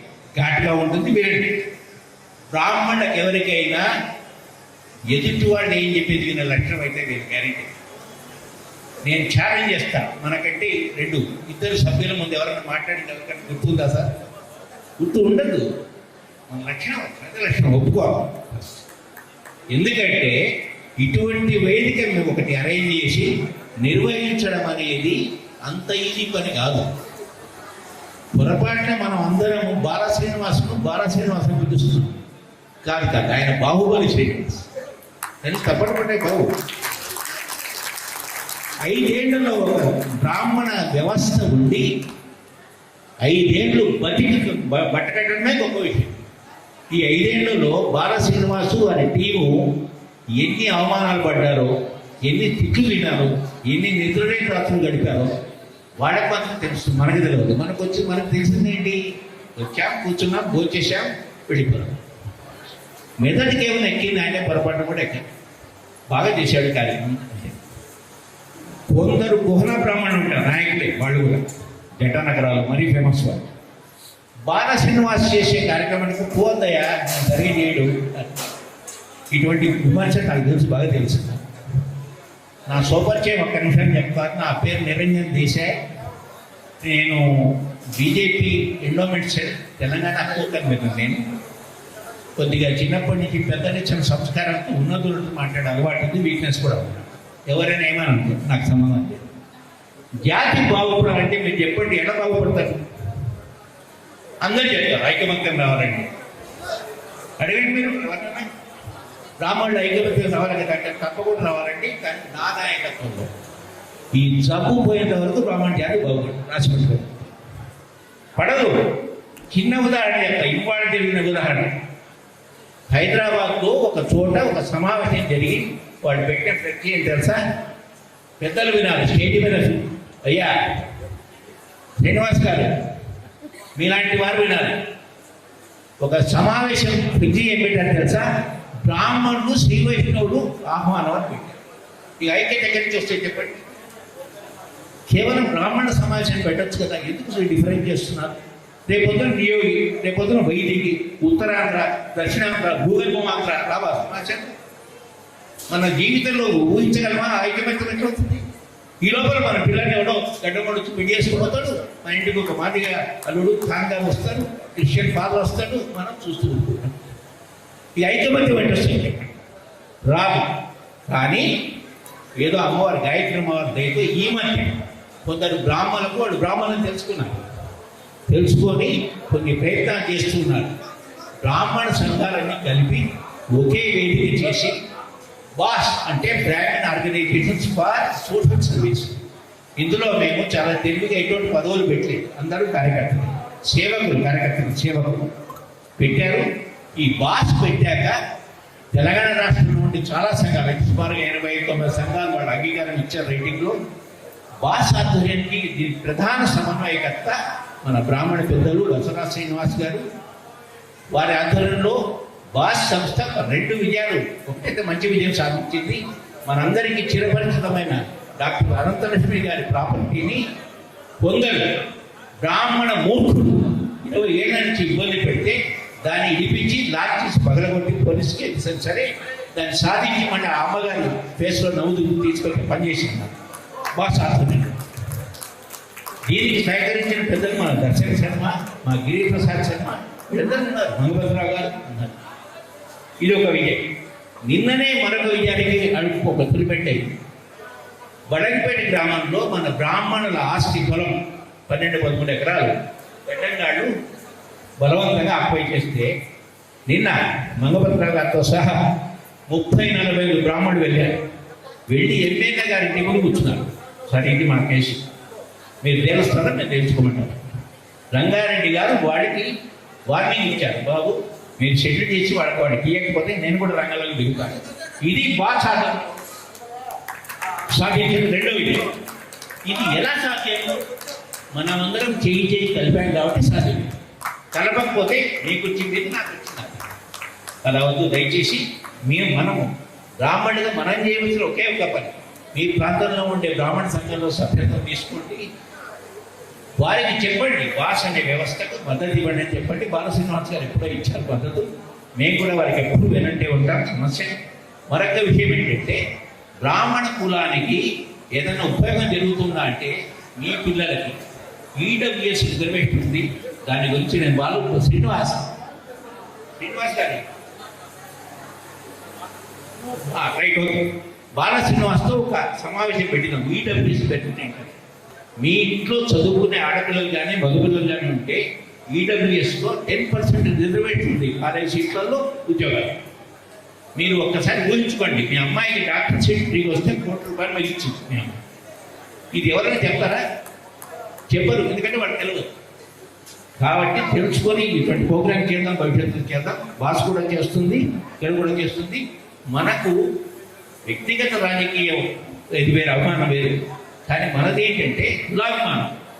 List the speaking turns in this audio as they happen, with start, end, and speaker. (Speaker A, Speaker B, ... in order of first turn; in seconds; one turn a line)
Speaker A: 0.3-1.6
Speaker A: 2.5-3.9
Speaker A: 5.1-7.7
Speaker A: 9.0-14.1
Speaker A: 15.0-15.7
Speaker A: 16.5-18.8
Speaker A: 19.7-20.4
Speaker A: 21.0-26.9
Speaker A: 28.3-32.2
Speaker A: 32.8-34.6
Speaker A: 35.4-36.5
Speaker A: 38.8-41.9
Speaker A: 43.2-46.2
Speaker A: 46.9-49.8
Speaker A: 50.4-51.7
Speaker A: 52.2-55.3
Speaker A: 56.0-59.0
Speaker A: 59.5-62.0
Speaker A: 63.2-65.3
Speaker A: 66.1-67.6
Speaker A: 68.9-71.4
Speaker A: 72.0-73.4
Speaker A: 74.5-78.3
Speaker A: 79.3-81.4
Speaker A: 82.7-85.8
Speaker A: 86.8-91.2
Speaker A: 92.3-99.2
Speaker A: 100.2-102.8
Speaker A: 104.4-106.1
Speaker A: 107.4-108.5
Speaker A: 109.4-113.3
Speaker A: 114.1-117.3
Speaker A: 118.3-119.0
Speaker A: 119.5-121.8
Speaker A: 122.9-127.4
Speaker A: 128.4-130.7
Speaker A: 132.0-132.8
Speaker A: 133.7-134.8
Speaker A: 136.0-138.3
Speaker A: 138.8-141.6
Speaker A: 142.2-143.6
Speaker A: 145.1-154.5
Speaker A: 155.7-158.4
Speaker A: 159.0-167.1
Speaker A: 168.0-169.3
Speaker A: 170.0-170.5
Speaker A: 171.1-171.5
Speaker A: 172.3-177.4
Speaker A: 178.3-180.7
Speaker A: 181.4-184.7
Speaker A: 185.6-189.2
Speaker A: 189.8-195.3
Speaker A: 196.0-196.4
Speaker A: 196.9-198.2
Speaker A: 198.9-203.8
Speaker A: 204.6-210.0
Speaker A: 211.1-212.0
Speaker A: 212.5-220.4
Speaker A: 221.2-221.8
Speaker A: 222.4-233.3
Speaker A: 233.9-234.8
Speaker A: 236.2-242.1
Speaker A: 243.2-243.9
Speaker A: 244.4-247.0
Speaker A: 248.3-252.7
Speaker A: 253.2-253.9
Speaker A: 254.8-256.1
Speaker A: 256.9-258.8
Speaker A: 259.5-261.2
Speaker A: 261.9-265.0
Speaker A: 265.8-267.4
Speaker A: 268.1-269.5
Speaker A: 270.1-276.1
Speaker A: 277.7-278.9
Speaker A: 279.6-280.8
Speaker A: 281.5-283.9
Speaker A: 284.5-286.8
Speaker A: 287.6-295.4
Speaker A: 296.8-304.3
Speaker A: 304.9-306.0
Speaker A: 306.6-307.8
Speaker A: 308.3-311.2
Speaker A: 311.8-315.5
Speaker A: 316.6-317.2
Speaker A: 320.1-324.7
Speaker A: 325.4-333.0
Speaker A: 333.9-338.4
Speaker A: 339.3-340.2
Speaker A: 341.3-342.5
Speaker A: 343.6-350.0
Speaker A: 350.9-355.9